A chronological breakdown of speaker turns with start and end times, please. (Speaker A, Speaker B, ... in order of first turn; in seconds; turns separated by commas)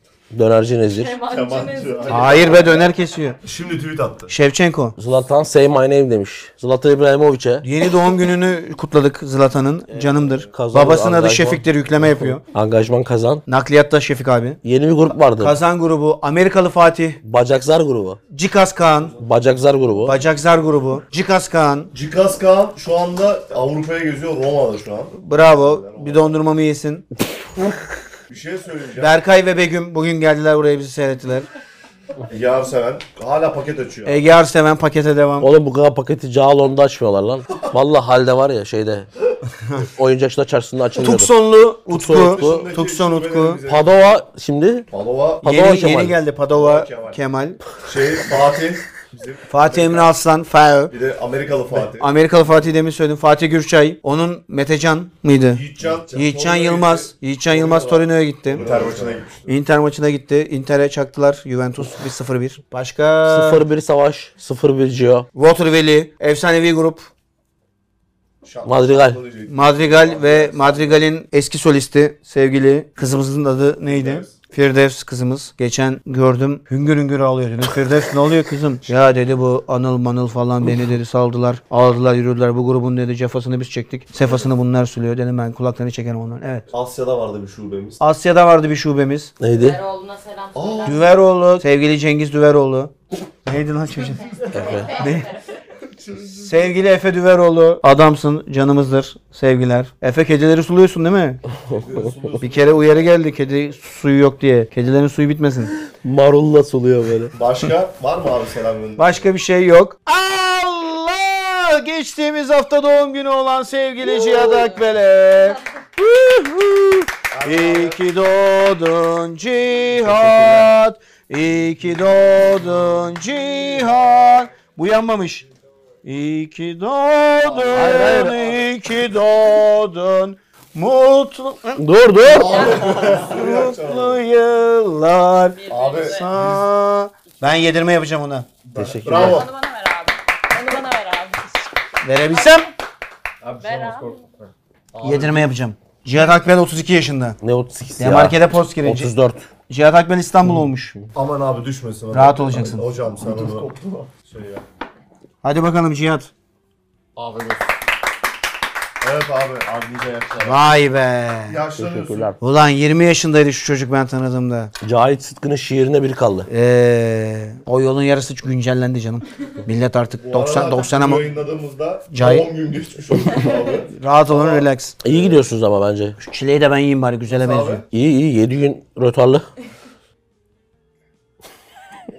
Speaker A: 0.3-1.2, Speaker B: 0.9-2.7, Speaker C: 1.3-2.7, Speaker D: 2.1-3.4, Speaker C: 3.4-4.3, Speaker D: 4.3-5.0, Speaker A: 5.0-7.7, Speaker D: 7.6-12.4, Speaker A: 10.5-13.4, Speaker D: 13.5-14.6, Speaker A: 14.6-15.6, Speaker D: 15.4-17.2, Speaker A: 17.2-18.2, Speaker D: 18.3-19.2, Speaker C: 19.0-19.3, Speaker A: 19.2-20.2, Speaker D: 20.0-21.9, Speaker C: 21.9-26.4, Speaker D: 25.1-27.0, Speaker C: 28.3-29.2, Speaker D: 29.0-31.4, Speaker C: 32.2-34.2, Speaker D: 34.0-35.5, Speaker A: 35.4-39.1, Speaker A: 39.8-41.3, Speaker D: 41.0-43.6, Speaker A: 41.9-42.7, Speaker C: 42.2-44.2, Speaker A: 43.6-44.9, Speaker C: 44.9-45.4, Speaker A: 45.4-46.2, Speaker D: 45.4-47.6, Speaker C: 46.5-47.2, Speaker C: 47.8-50.1, Speaker D: 49.5-50.9, Speaker C: 50.9-52.1, Speaker D: 51.7-58.7, Speaker C: 55.5-59.5, Speaker A: 58.6-58.9, Speaker D: 59.4-63.6, Speaker A: 63.2-65.3, Speaker D: 65.3-67.1, Speaker C: 68.4-71.0, Speaker A: 68.6-69.2, Speaker D: 69.5-86.7, Speaker C: 73.8-74.3, Speaker C: 86.7-88.0, Speaker D: 88.0-89.3, Speaker A: 89.4-89.8, Speaker B: 89.5-91.0, Speaker C: 90.5-91.0, Speaker D: 90.8-95.3, Speaker B: 94.5-95.4, Speaker A: 94.5-94.9, Speaker C: 95.9-96.5, Speaker D: 96.3-101.4, Speaker A: 101.7-101.9, Speaker C: 101.7-103.1, Speaker D: 102.4-105.7, Speaker A: 105.8-107.3, Speaker C: 107.3-109.3, Speaker D: 109.0-125.5, Speaker C: 117.3-118.0, Speaker A: 120.0-120.7, Speaker D: 126.0-131.8, Speaker C: 127.4-128.3, Speaker A: 127.7-128.7, Speaker A: 131.8-132.8, Speaker C: 132.3-134.2, Speaker B: 132.3-133.0, Speaker D: 132.4-138.5, Speaker B: 135.5-136.3, Speaker C: 135.7-136.7, Speaker C: 138.7-139.5, Speaker A: 138.7-139.4, Speaker B: 139.1-141.4, Speaker D: 142.0-142.7, Speaker C: 143.4-144.1, Speaker B: 143.6-144.2, Speaker C: 144.9-145.5, Speaker D: 145.0-147.4, Speaker A: 147.4-149.5, Speaker D: 148.0-149.1, Speaker D: 149.7-150.9, Speaker A: 150.5-151.1, Speaker C: 151.1-154.6, Speaker D: 152.1-152.8, Speaker D: 155.4-156.3, Speaker C: 157.2-157.6, Speaker C: 159.0-160.6, Speaker D: 160.4-161.6, Speaker C: 161.5-162.3, Speaker A: 161.8-162.4, Speaker D: 162.4-164.7, Speaker A: 164.8-166.5, Speaker D: 166.5-171.3, Speaker C: 170.2-175.4, Speaker D: 172.1-172.5, Speaker D: 173.9-175.0, Speaker A: 175.0-176.2, Speaker D: 176.2-177.8, Speaker C: 177.4-177.8, Speaker A: 177.9-179.4